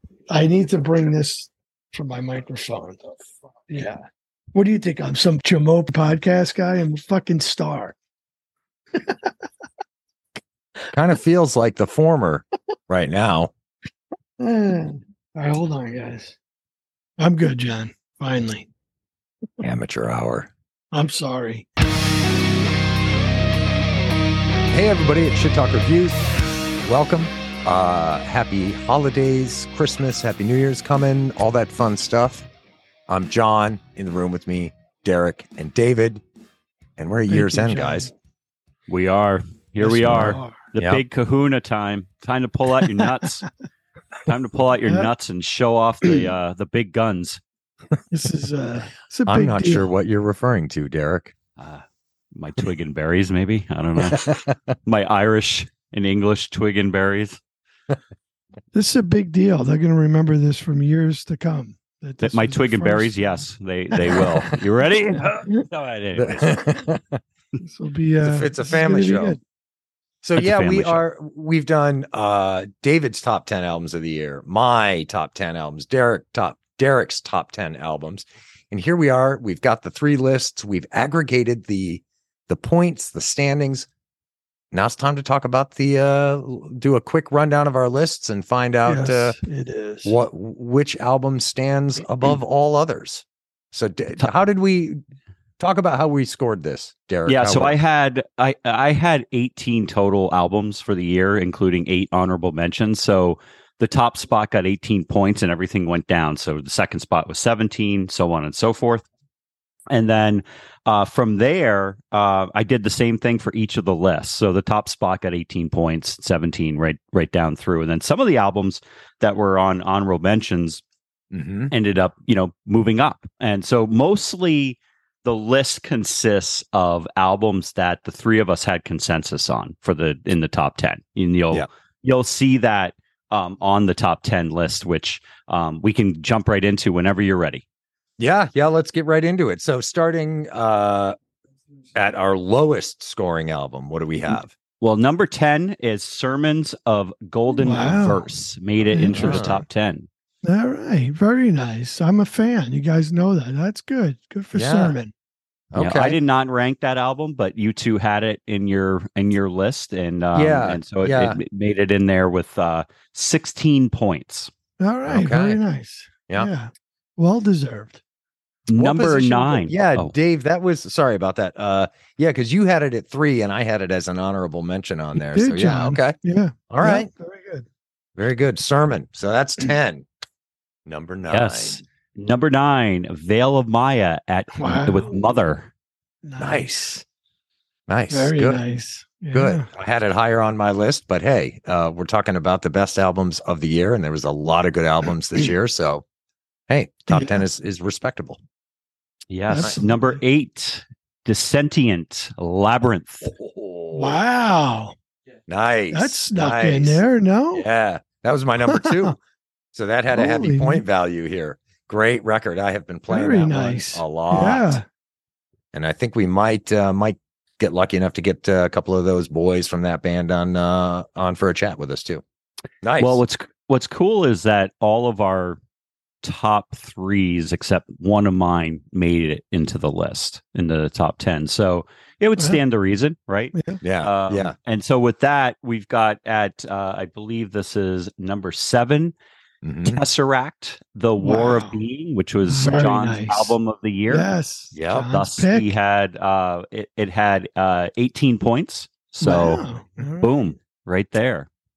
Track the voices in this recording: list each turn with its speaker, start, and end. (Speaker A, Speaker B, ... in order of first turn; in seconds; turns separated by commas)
Speaker A: 0.3-8.0, Speaker A: 8.9-9.3, Speaker B: 10.9-13.5, Speaker A: 14.4-16.4, Speaker A: 17.2-18.7, Speaker B: 19.6-20.5, Speaker A: 20.9-21.7, Speaker B: 24.7-26.2, Speaker B: 26.8-32.5, Speaker B: 33.1-36.2, Speaker B: 37.0-38.1, Speaker A: 37.3-38.1, Speaker C: 38.9-43.5, Speaker A: 39.8-40.6, Speaker B: 40.8-41.0, Speaker C: 44.2-47.4, Speaker A: 48.1-49.9, Speaker B: 49.3-51.3, Speaker C: 51.6-54.3, Speaker B: 54.0-54.6, Speaker C: 54.9-57.4, Speaker A: 58.7-63.5, Speaker C: 62.2-66.6, Speaker B: 64.0-64.4, Speaker B: 66.1-67.2, Speaker A: 67.6-69.4, Speaker B: 68.2-69.4, Speaker B: 70.2-83.9, Speaker C: 70.3-71.0, Speaker B: 84.7-89.4, Speaker A: 88.8-90.2, Speaker B: 90.0-95.0, Speaker B: 95.6-97.8, Speaker C: 97.2-109.0, Speaker C: 109.9-120.8, Speaker B: 121.3-121.7, Speaker C: 121.7-137.6, Speaker B: 138.2-141.2, Speaker B: 141.9-144.5, Speaker C: 144.8-150.1, Speaker A: 147.5-148.2, Speaker A: 148.9-149.5, Speaker B: 149.1-149.6, Speaker A: 150.4-155.1, Speaker B: 154.5-155.0, Speaker B: 155.7-156.2, Speaker C: 155.8-164.5, Speaker B: 160.3-161.4, Speaker A: 164.8-168.0, Speaker B: 165.1-165.6, Speaker C: 168.7-170.1, Speaker B: 168.7-176.2, Speaker A: 175.2-177.7, Speaker B: 176.7-177.1, Speaker B: 178.2-180.1, Speaker B: 180.8-181.8, Speaker C: 181.3-185.7, Speaker A: 184.6-185.2, Speaker A: 186.2-187.0, Speaker B: 186.4-186.9, Speaker B: 187.9-188.6, Speaker A: 188.1-189.7, Speaker B: 189.3-196.0, Speaker B: 196.7-198.4, Speaker A: 197.1-197.4, Speaker C: 199.3-203.3, Speaker A: 199.5-200.1, Speaker B: 203.2-204.2, Speaker A: 203.9-204.9, Speaker B: 205.5-207.0, Speaker A: 205.9-207.7, Speaker B: 207.5-209.2, Speaker A: 208.6-209.1, Speaker B: 209.7-214.8, Speaker A: 210.1-210.8, Speaker A: 213.1-214.8, Speaker B: 215.7-222.2, Speaker B: 222.8-223.2, Speaker C: 223.0-225.6, Speaker C: 226.2-239.1, Speaker A: 233.5-233.8, Speaker B: 233.8-234.5, Speaker B: 239.6-240.0, Speaker C: 239.8-244.3, Speaker A: 241.2-241.8, Speaker A: 242.4-243.5, Speaker A: 244.1-245.7, Speaker B: 244.7-245.1, Speaker C: 244.9-251.5, Speaker A: 249.2-250.5